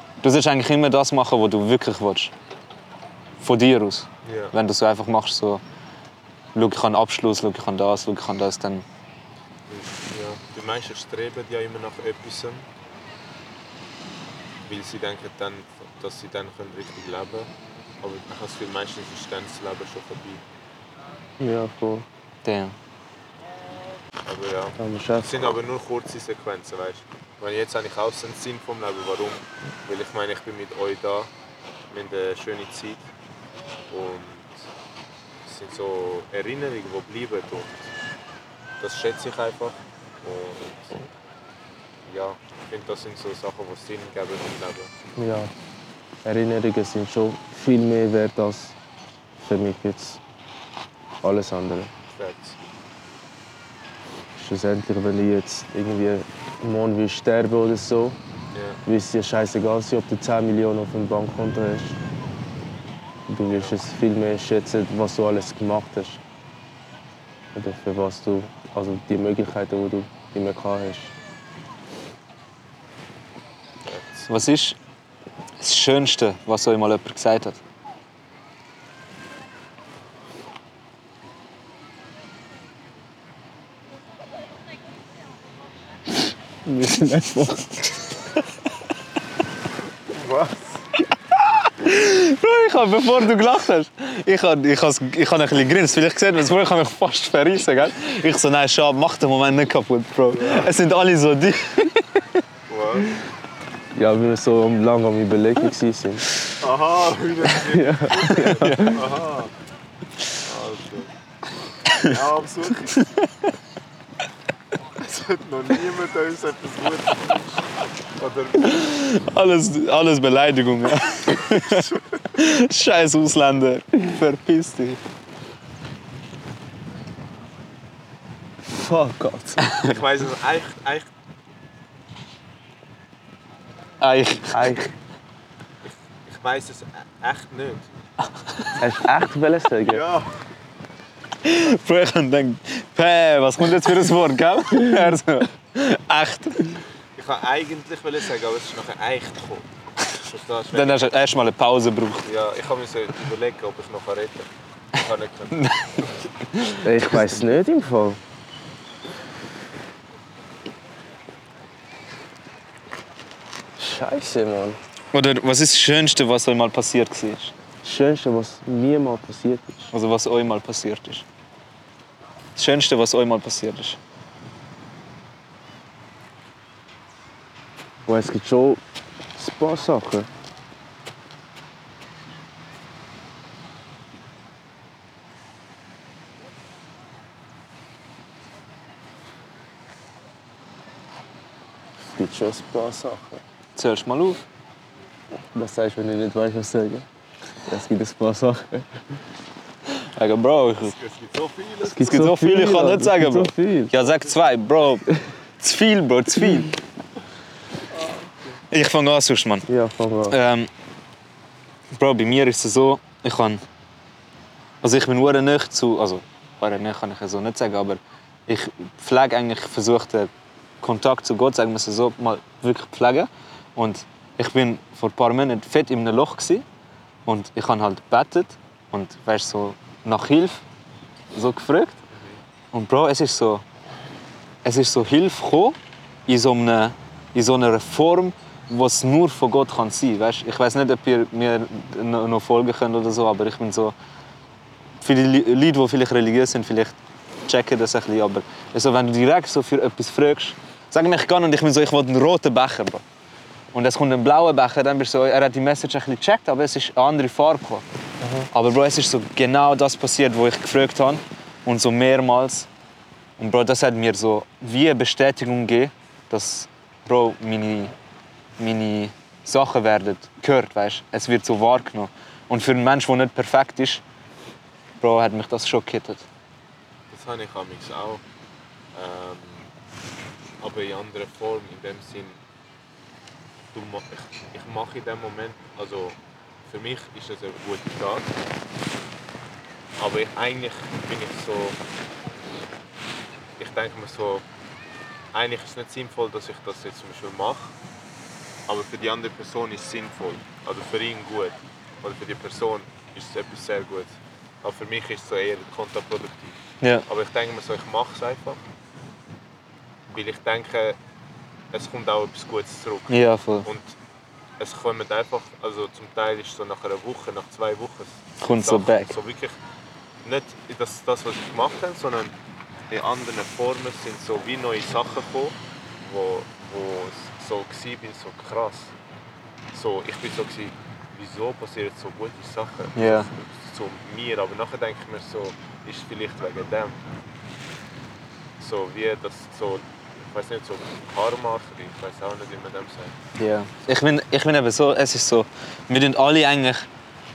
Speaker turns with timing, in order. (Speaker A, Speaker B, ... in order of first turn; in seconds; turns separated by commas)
Speaker A: 0.2-2.3, Speaker A: 3.4-5.6, Speaker B: 4.2-4.5, Speaker A: 6.5-8.8, Speaker B: 9.7-12.7, Speaker B: 14.7-17.5, Speaker B: 18.0-20.4, Speaker C: 21.4-22.1, Speaker A: 22.4-22.7, Speaker B: 24.2-31.3, Speaker C: 24.8-25.6, Speaker B: 31.9-33.1, Speaker B: 33.9-34.7, Speaker B: 35.4-37.9, Speaker B: 38.8-41.1, Speaker B: 42.1-44.9, Speaker C: 45.2-45.5, Speaker C: 46.2-48.8, Speaker C: 49.4-50.2, Speaker C: 51.2-51.9, Speaker B: 52.1-52.6, Speaker C: 54.4-58.2, Speaker B: 58.5-58.8, Speaker C: 58.9-62.0, Speaker C: 63.3-66.2, Speaker C: 67.5-71.1, Speaker B: 73.8-74.3, Speaker A: 74.3-74.8, Speaker A: 75.6-77.6, Speaker C: 86.7-87.8, Speaker B: 90.1-90.8, Speaker A: 91.6-102.2, Speaker B: 100.3-100.7, Speaker B: 102.7-103.2, Speaker C: 104.0-106.2, Speaker B: 106.6-109.5, Speaker C: 107.6-109.0, Speaker A: 108.5-109.0, Speaker B: 110.4-111.1, Speaker B: 112.0-113.1, Speaker A: 113.0-113.2, Speaker B: 115.0-118.9, Speaker A: 118.6-125.0, Speaker C: 128.7-129.7, Speaker B: 129.8-131.1, Speaker A: 134.0-134.7, Speaker C: 134.5-134.9, Speaker B: 135.8-137.9, Speaker C: 138.8-140.0, Speaker B: 139.9-140.3, Speaker A: 141.4-146.8, Speaker B: 147.2-151.1, Speaker A: 150.7-152.2, Speaker B: 152.2-155.6, Speaker A: 155.5-157.3, Speaker C: 156.8-158.2, Speaker C: 163.8-164.8, Speaker A: 165.1-167.5, Speaker C: 167.8-169.9, Speaker A: 169.9-171.2, Speaker A: 172.6-174.0, Speaker C: 178.1-178.8, Speaker C: 179.4-180.3, Speaker C: 192.1-193.4, Speaker A: 193.8-194.4, Speaker C: 195.5-197.1, Speaker C: 197.7-199.0, Speaker A: 200.2-200.9, Speaker B: 200.8-202.2, Speaker C: 201.8-203.9, Speaker A: 202.0-205.1, Speaker A: 205.6-206.8, Speaker A: 208.7-209.7, Speaker C: 209.7-210.4, Speaker A: 210.3-210.7, Speaker A: 212.0-213.6, Speaker A: 214.8-220.3, Speaker A: 220.8-226.7, Speaker A: 227.3-230.6, Speaker A: 231.3-232.0, Speaker B: 232.1-232.4, Speaker A: 232.7-233.6, Speaker A: 234.7-235.8, Speaker A: 236.3-243.9, Speaker A: 245.0-247.0, Speaker A: 247.5-253.0, Speaker A: 253.7-257.8, Speaker C: 258.2-258.5, Speaker A: 258.5-262.7, Speaker A: 263.4-267.9, Speaker A: 268.6-274.0, Speaker A: 275.0-276.2, Speaker B: 277.1-278.2, Speaker B: 278.9-279.7, Speaker B: 280.6-282.4, Speaker B: 283.7-288.3, Speaker B: 290.0-291.8, Speaker B: 293.6-294.4, Speaker B: 295.3-297.7, Speaker B: 298.7-308.6, Speaker B: 310.1-311.0, Speaker B: 311.7-314.0, Speaker A: 313.1-313.7, Speaker B: 314.6-319.6, Speaker A: 318.4-319.1, Speaker B: 320.2-322.3, Speaker B: 322.9-328.9, Speaker B: 329.7-336.9, Speaker A: 333.0-333.3, Speaker B: 338.6-343.1, Speaker A: 343.4-346.9